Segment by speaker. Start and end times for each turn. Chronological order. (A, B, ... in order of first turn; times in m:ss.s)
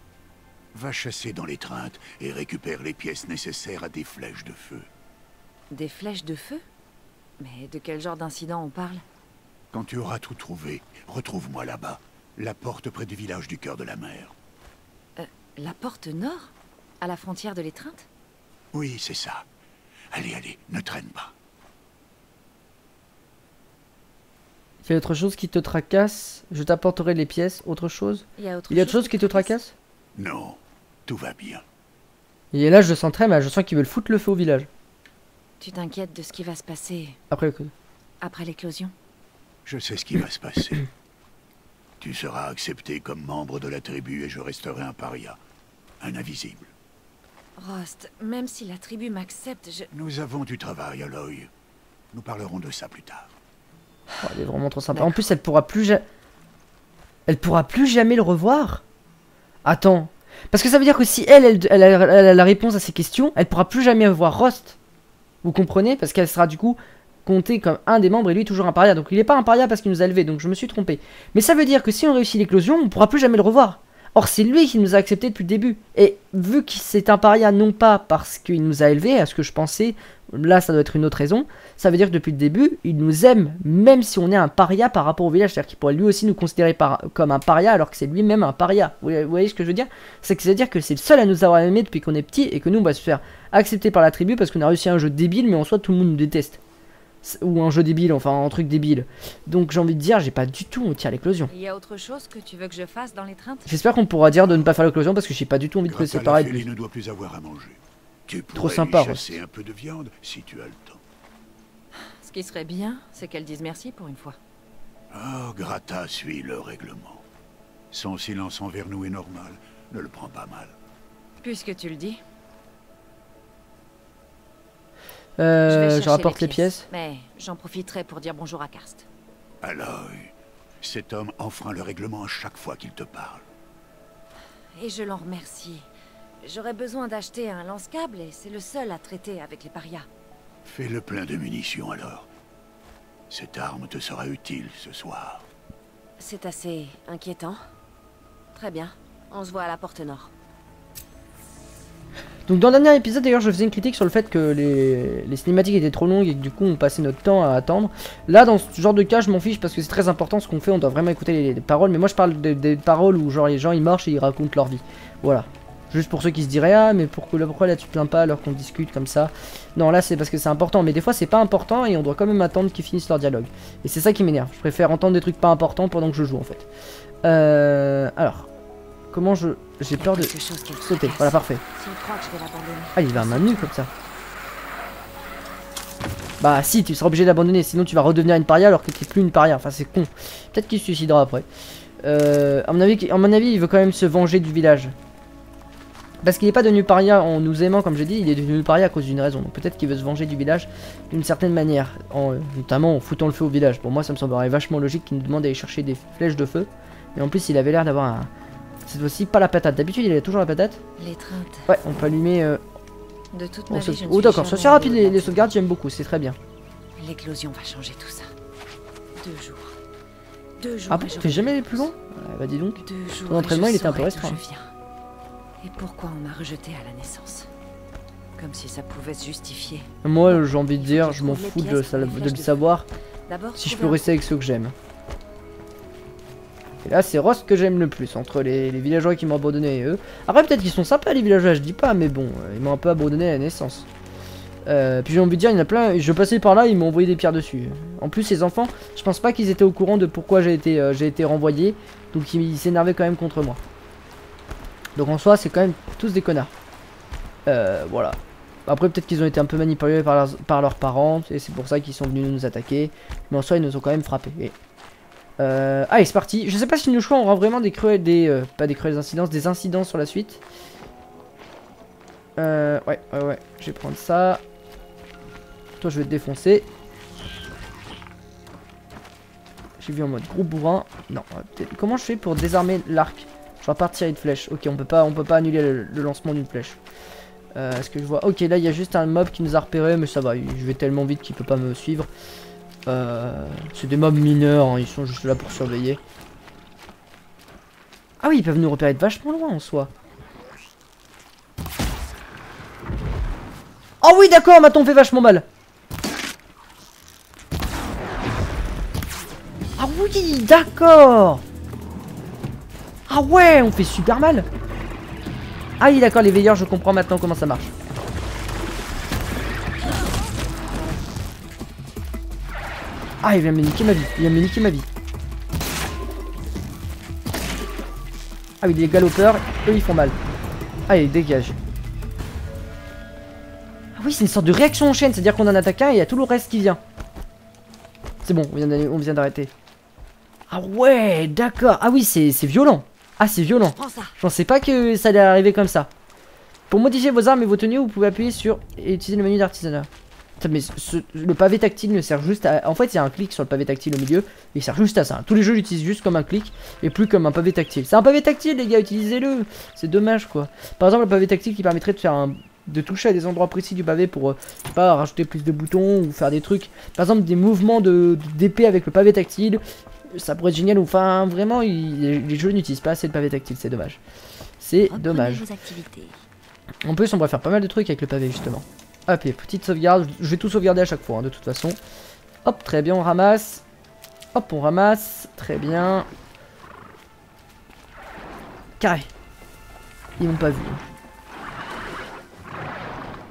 0:00.7-0:04.9 A
0:05.7-0:06.6 B
0:07.4-0:09.0 B
0:09.7-0:14.4 A
0:15.2-0:18.1 B
0:18.7-0:19.5 A
0:20.1-0:21.3 A
0:24.8-0:29.7 C
0:28.4-0:29.5 B
0:30.2-0:31.6 A
0:32.5-0:34.7 C
0:35.6-0:37.2 B
0:37.3-0:37.7 C
0:38.2-0:38.9 B
0:39.7-0:40.8 A
0:42.0-0:45.4 A
0:46.0-0:46.7 A
0:47.6-0:49.9 B
0:49.9-0:51.5 A
0:52.1-0:53.3 A
0:54.2-0:56.0 C
0:54.9-0:55.3 B
0:57.3-0:58.8 C
0:59.6-1:04.8 C
1:05.4-1:36.6 C
1:37.2-1:41.5 C
1:41.5-1:43.8 B
1:43.7-1:46.7 C
1:45.8-1:51.0 A
1:48.6-1:49.4 C
1:51.9-1:54.4 B
1:55.1-1:57.2 A
1:57.9-2:00.8 A
2:01.4-2:02.2 B
2:05.4-2:06.9 C
2:05.7-2:09.1 B
2:09.6-2:13.5 A
2:14.7-2:15.9 B
2:16.4-2:20.1 B
2:20.6-2:22.3 A
2:23.3-2:25.5 A
2:26.2-2:27.6 B
2:28.5-2:30.3 B
2:32.5-2:56.7 C
2:57.2-2:58.5 C
2:59.1-3:01.6 C
3:00.0-3:03.7 B
3:03.0-3:03.9 C
3:06.4-3:11.5 C
3:12.0-3:15.0 C
3:16.2-3:28.3 C
3:28.9-3:30.8 C
3:31.0-3:31.7 B
3:31.7-3:32.6 C
3:33.3-3:35.5 B
3:33.7-3:36.4 C
3:37.0-3:38.3 B
3:39.2-3:39.8 B
3:40.6-3:41.9 B
3:40.9-3:44.4 C
3:42.8-3:44.7 B
3:45.6-3:47.5 B
3:48.4-3:52.7 B
3:50.0-3:52.9 C
3:53.3-3:54.2 B
3:53.6-3:54.7 C
3:56.8-4:03.9 C
4:04.7-4:13.6 C
4:15.0-4:16.5 C
4:17.5-4:24.6 C
4:25.4-4:30.4 C
4:32.4-4:34.4 C
4:35.8-4:36.7 C
4:39.8-4:46.8 C
4:47.6-4:52.1 C
4:52.9-4:56.0 C
4:58.2-4:59.9 C
5:04.0-5:05.5 C
5:09.8-5:11.4 C
5:13.1-5:14.5 C
5:15.8-5:17.7 C
5:23.2-5:24.9 C
5:28.6-5:30.2 C
5:30.9-5:31.6 C
5:34.0-5:36.8 C
5:38.2-5:39.5 C
5:40.5-5:45.9 C
5:43.8-5:44.2 B
5:46.7-5:49.9 C
5:50.4-6:09.6 C
6:10.1-6:14.0 C
6:14.6-6:15.4 C
6:14.9-6:16.1 B
6:16.8-6:21.8 C
6:22.4-6:23.6 C
6:24.4-6:26.1 C
6:28.8-6:29.1 C
6:30.2-6:30.8 C